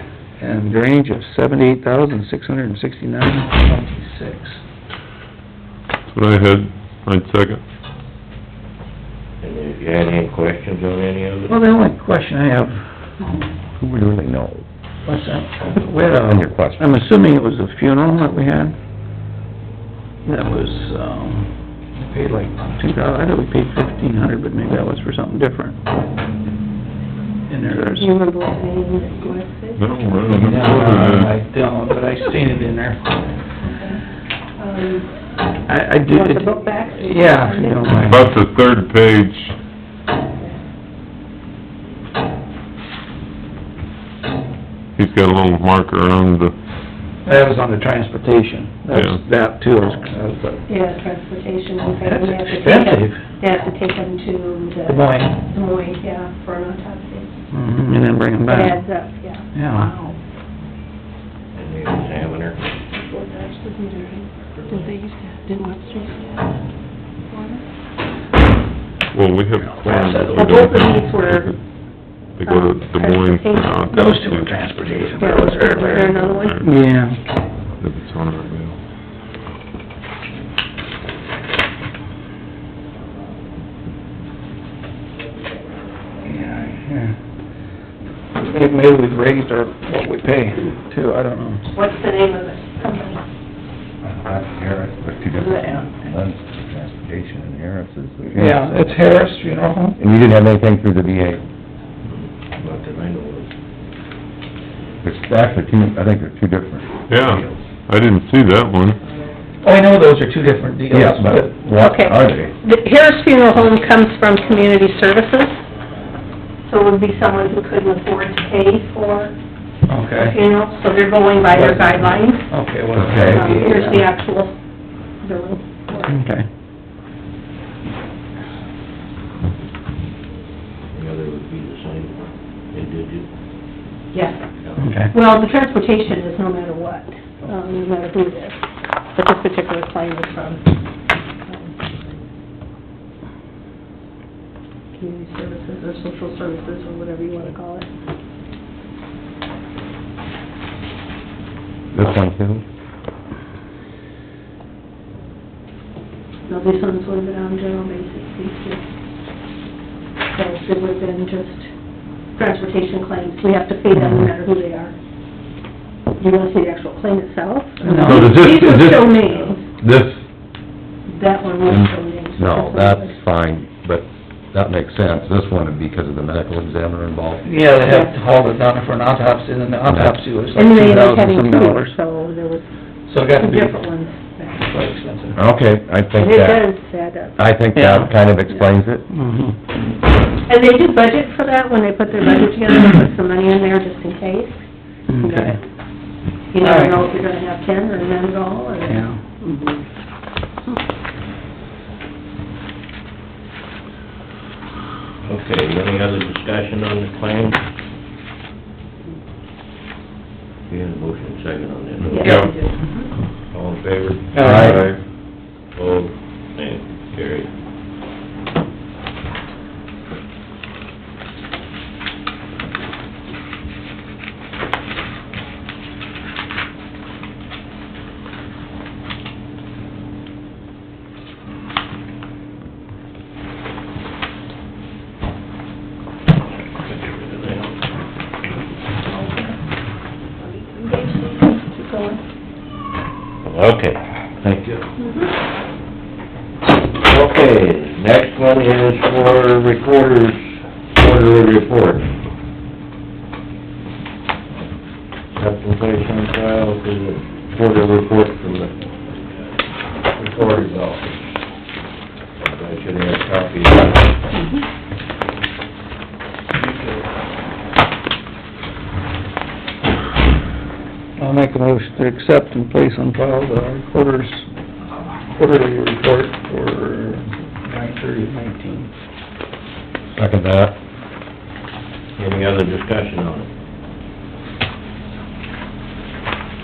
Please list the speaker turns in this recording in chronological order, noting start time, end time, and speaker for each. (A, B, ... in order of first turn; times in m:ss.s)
0:00.4-0:04.6 A
0:06.1-0:07.6 B
0:09.4-0:11.5 C
0:11.5-0:13.4 A
0:13.8-0:14.6 D
0:15.0-0:18.8 A
0:16.0-0:16.9 D
0:20.2-0:25.8 A
0:27.5-0:28.1 A
0:27.7-0:30.2 E
0:29.8-0:31.3 B
0:30.3-0:33.1 A
0:33.6-0:34.0 E
0:34.6-0:35.1 E
0:35.7-0:38.3 A
0:36.1-0:37.9 E
0:37.9-0:39.6 B
0:45.0-0:46.5 B
0:47.2-0:50.6 A
0:48.9-0:49.2 B
0:50.7-0:57.3 E
0:52.0-0:53.2 A
0:54.9-0:55.4 A
0:57.5-0:58.8 A
0:58.5-1:00.2 E
0:59.5-0:59.9 A
1:01.5-1:02.6 C
1:02.9-1:06.3 E
1:04.6-1:04.9 C
1:07.3-1:07.6 E
1:09.1-1:11.6 B
1:09.6-1:10.6 A
1:10.3-1:11.5 E
1:12.3-1:15.2 B
1:12.4-1:14.2 E
1:13.9-1:17.2 A
1:15.2-1:16.7 E
1:15.8-1:16.7 B
1:17.8-1:18.8 B
1:26.2-1:27.2 A
1:28.4-1:31.6 A
1:31.7-1:33.2 E
1:34.0-1:38.9 D
1:35.3-1:35.9 E
1:38.3-1:40.0 A
1:40.0-1:41.4 D
1:42.0-1:43.5 C
1:45.0-1:47.6 D
1:47.1-1:49.0 B
1:49.6-1:51.6 A
1:50.9-1:52.6 D
1:51.8-1:55.6 E
1:56.6-1:59.4 E
1:59.9-2:00.4 A
2:00.1-2:02.5 E
2:01.5-2:04.0 A
2:03.0-2:03.4 D
2:03.2-2:04.6 E
2:05.1-2:06.2 E
2:06.0-2:06.4 A
2:10.9-2:12.2 C
2:12.7-2:13.3 C
2:14.1-2:14.4 E
2:14.8-2:15.1 A
2:15.1-2:20.7 E
2:21.4-2:21.8 E
2:24.9-2:27.9 E
2:31.9-2:32.6 D
2:36.5-2:38.8 E
2:40.3-2:41.7 E
2:42.3-2:45.0 E
2:43.9-2:44.3 A
2:46.2-2:49.6 E
2:47.8-2:48.4 A
2:48.0-2:49.2 D
2:49.8-2:50.2 D
2:51.1-2:53.2 E
2:51.6-2:57.5 D
2:57.4-3:02.0 A
2:57.8-2:58.1 E
2:59.9-3:00.2 D
3:00.6-3:02.7 E
3:03.1-3:03.8 A
3:03.3-3:04.7 E
3:04.6-3:05.4 A
3:05.4-3:06.7 D
3:06.2-3:07.4 E
3:07.4-3:09.1 D
3:07.7-3:08.1 A
3:09.1-3:09.6 A
3:10.4-3:14.6 E
3:15.1-3:15.6 A
3:15.2-3:15.6 E
3:16.5-3:19.8 E
3:16.6-3:17.0 A
3:18.9-3:19.2 A
3:25.2-3:27.6 C
3:30.7-3:32.3 C
3:32.1-3:33.1 E
3:32.1-3:32.5 B
3:33.5-3:34.3 C
3:34.3-3:34.9 A
3:34.4-3:34.9 D
3:34.5-3:35.0 B
3:35.7-3:37.5 C
3:56.7-3:57.8 C
3:59.1-3:59.6 E
4:00.4-4:02.2 E
4:03.4-4:04.8 C
4:05.0-4:05.3 E
4:06.9-4:12.1 C
4:15.3-4:19.4 C
4:20.1-4:21.1 C
4:22.4-4:24.1 C
4:24.3-4:24.6 E
4:31.2-4:34.5 A
4:35.3-4:38.9 A
4:40.1-4:40.8 D
4:42.2-4:43.5 C